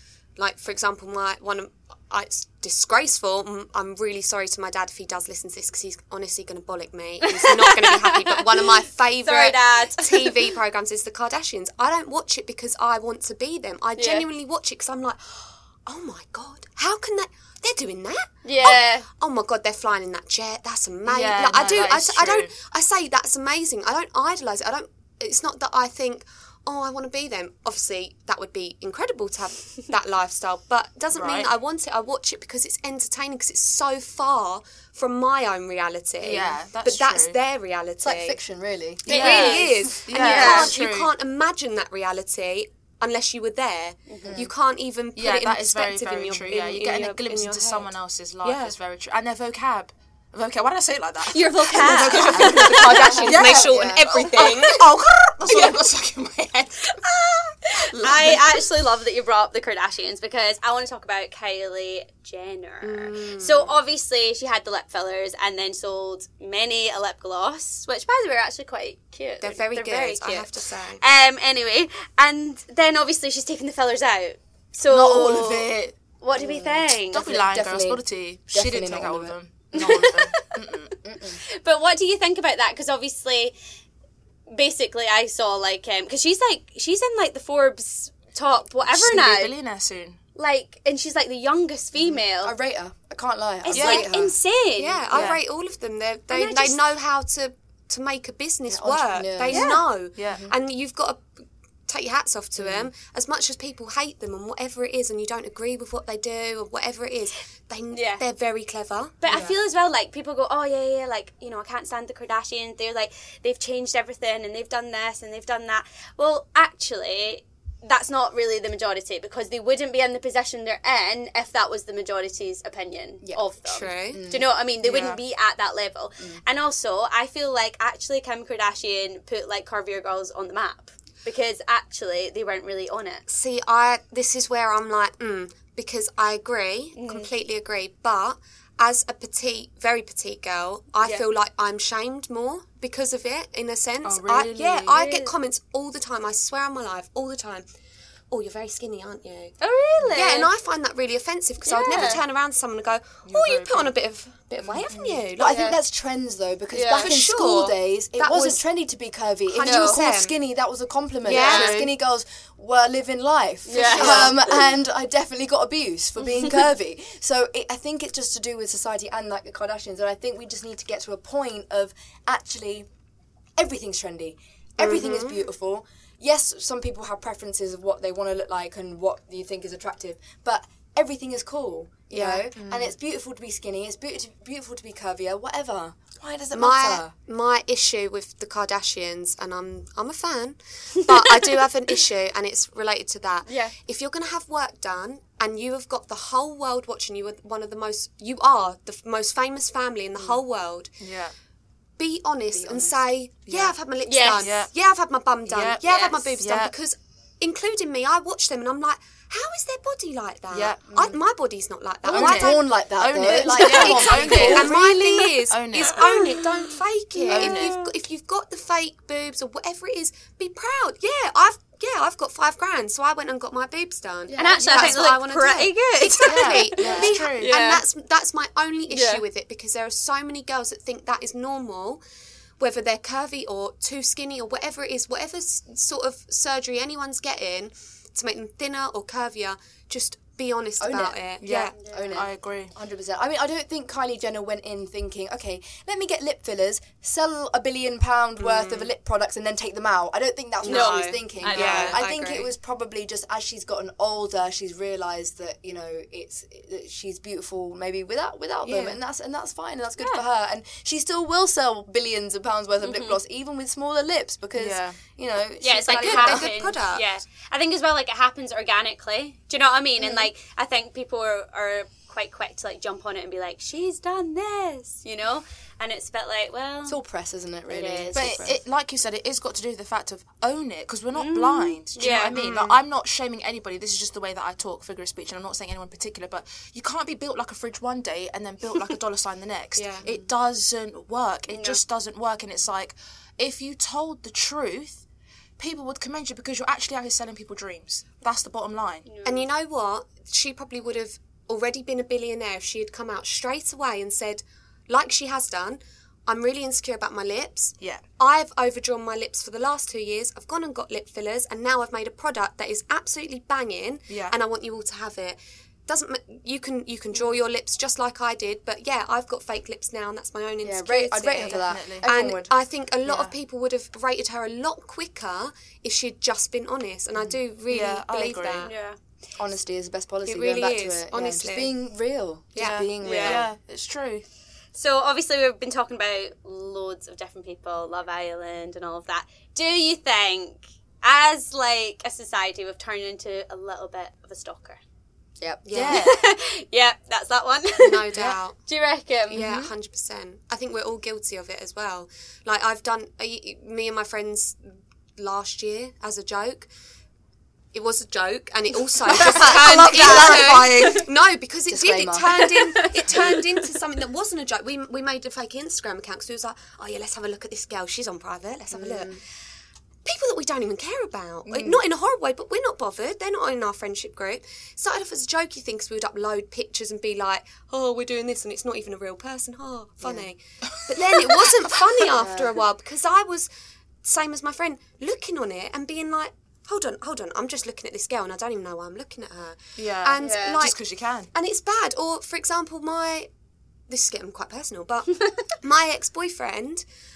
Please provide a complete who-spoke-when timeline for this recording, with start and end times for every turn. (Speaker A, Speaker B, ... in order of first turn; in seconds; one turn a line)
Speaker A: 0.4-38.4
Speaker B: 7.3-8.4
Speaker B: 9.2-10.4
Speaker B: 14.0-14.3
Speaker B: 18.4-19.1
Speaker C: 21.0-22.5
Speaker C: 31.1-31.5
Speaker C: 36.2-37.4
Speaker D: 38.0-39.5
Speaker A: 39.0-47.9
Speaker B: 39.1-40.7
Speaker C: 39.1-41.1
Speaker B: 44.1-44.4
Speaker D: 44.2-44.5
Speaker C: 45.1-58.7
Speaker A: 48.4-48.7
Speaker B: 51.2-53.6
Speaker A: 51.8-54.9
Speaker D: 52.8-54.0
Speaker B: 57.7-75.7
Speaker A: 62.8-63.7
Speaker A: 69.4-71.0
Speaker C: 74.8-76.0
Speaker B: 76.2-77.3
Speaker D: 76.3-80.2
Speaker C: 77.0-80.9
Speaker B: 79.8-80.5
Speaker D: 81.0-81.4
Speaker B: 81.5-83.5
Speaker B: 84.5-89.5
Speaker C: 88.8-90.2
Speaker B: 90.3-92.5
Speaker D: 92.0-94.3
Speaker B: 93.6-95.0
Speaker C: 93.7-94.1
Speaker A: 94.8-109.5
Speaker C: 95.1-95.4
Speaker B: 96.3-96.8
Speaker D: 98.7-99.7
Speaker B: 99.5-99.8
Speaker C: 100.1-100.4
Speaker D: 100.2-100.5
Speaker D: 102.6-102.9
Speaker B: 107.9-108.2
Speaker B: 109.2-133.2
Speaker D: 109.2-109.6
Speaker D: 123.2-123.5
Speaker A: 123.7-124.2
Speaker D: 124.1-124.5
Speaker C: 124.8-125.2
Speaker A: 133.3-147.6
Speaker B: 137.0-137.3
Speaker C: 144.0-145.0
Speaker B: 144.9-145.3
Speaker A: 148.3-155.7
Speaker B: 149.6-150.5
Speaker B: 151.7-152.2
Speaker C: 153.2-153.9
Speaker C: 154.6-155.2
Speaker D: 154.9-172.9
Speaker B: 155.4-155.8
Speaker B: 156.7-157.2
Speaker A: 157.0-158.6
Speaker A: 159.5-160.3
Speaker C: 159.7-159.9
Speaker A: 161.2-161.8
Speaker C: 161.2-161.9
Speaker B: 163.7-164.6
Speaker A: 163.7-164.3
Speaker D: 173.6-187.1
Speaker A: 174.8-175.5
Speaker C: 182.1-182.9
Speaker A: 186.5-200.9
Speaker B: 193.5-193.7
Speaker C: 201.0-201.3
Speaker A: 202.0-212.7
Speaker D: 202.5-203.0
Speaker C: 203.5-203.8
Speaker B: 204.1-204.5
Speaker C: 204.3-204.7
Speaker C: 205.5-205.8
Speaker B: 205.8-206.4
Speaker C: 206.4-206.7
Speaker C: 210.5-210.9
Speaker D: 210.9-211.2
Speaker C: 212.1-214.8
Speaker D: 212.1-214.8
Speaker A: 213.2-232.0
Speaker B: 213.6-217.9
Speaker C: 215.5-216.2
Speaker C: 217.3-217.8
Speaker D: 224.3-224.6
Speaker B: 224.4-227.8
Speaker C: 224.6-225.1
Speaker C: 226.2-227.6
Speaker B: 228.9-229.2
Speaker A: 232.6-241.8
Speaker D: 240.8-266.5
Speaker C: 241.4-242.7
Speaker B: 241.8-242.3
Speaker A: 248.4-248.9
Speaker A: 250.6-252.5
Speaker B: 250.6-252.0
Speaker C: 251.5-252.0
Speaker C: 258.6-259.0
Speaker B: 260.0-260.2
Speaker B: 262.8-263.2
Speaker C: 264.6-265.0
Speaker B: 265.6-277.0
Speaker A: 265.9-267.1
Speaker D: 270.0-270.3
Speaker D: 276.9-278.6
Speaker B: 277.7-278.5
Speaker C: 278.1-295.0
Speaker B: 281.1-282.4
Speaker A: 282.2-282.8
Speaker A: 289.8-290.1
Speaker B: 291.5-291.8
Speaker C: 295.6-299.1
Speaker B: 299.1-299.4
Speaker A: 299.2-328.7
Speaker C: 314.1-314.4
Speaker D: 320.6-322.5
Speaker C: 321.5-322.1
Speaker C: 323.1-323.3
Speaker C: 327.7-328.7
Speaker B: 328.6-329.0
Speaker D: 329.4-333.5
Speaker A: 330.2-331.7
Speaker A: 332.5-332.9
Speaker C: 332.6-334.2
Speaker B: 333.0-333.4
Speaker B: 334.7-344.8
Speaker A: 345.6-346.1
Speaker C: 345.7-346.2
Speaker B: 345.9-348.1
Speaker A: 347.8-348.7
Speaker C: 348.1-348.4
Speaker B: 348.7-349.4
Speaker A: 349.3-356.7
Speaker C: 349.3-349.7
Speaker A: 357.7-369.2
Speaker B: 359.2-361.0
Speaker C: 359.2-361.1
Speaker D: 361.7-362.5
Speaker B: 362.4-363.2
Speaker D: 368.7-369.2
Speaker A: 370.0-383.5
Speaker D: 371.4-371.8
Speaker D: 380.0-380.3
Speaker C: 380.7-381.6
Speaker D: 382.2-382.5
Speaker A: 384.0-390.8
Speaker C: 389.8-391.3
Speaker B: 390.2-390.6
Speaker A: 391.3-393.3
Speaker A: 393.9-396.8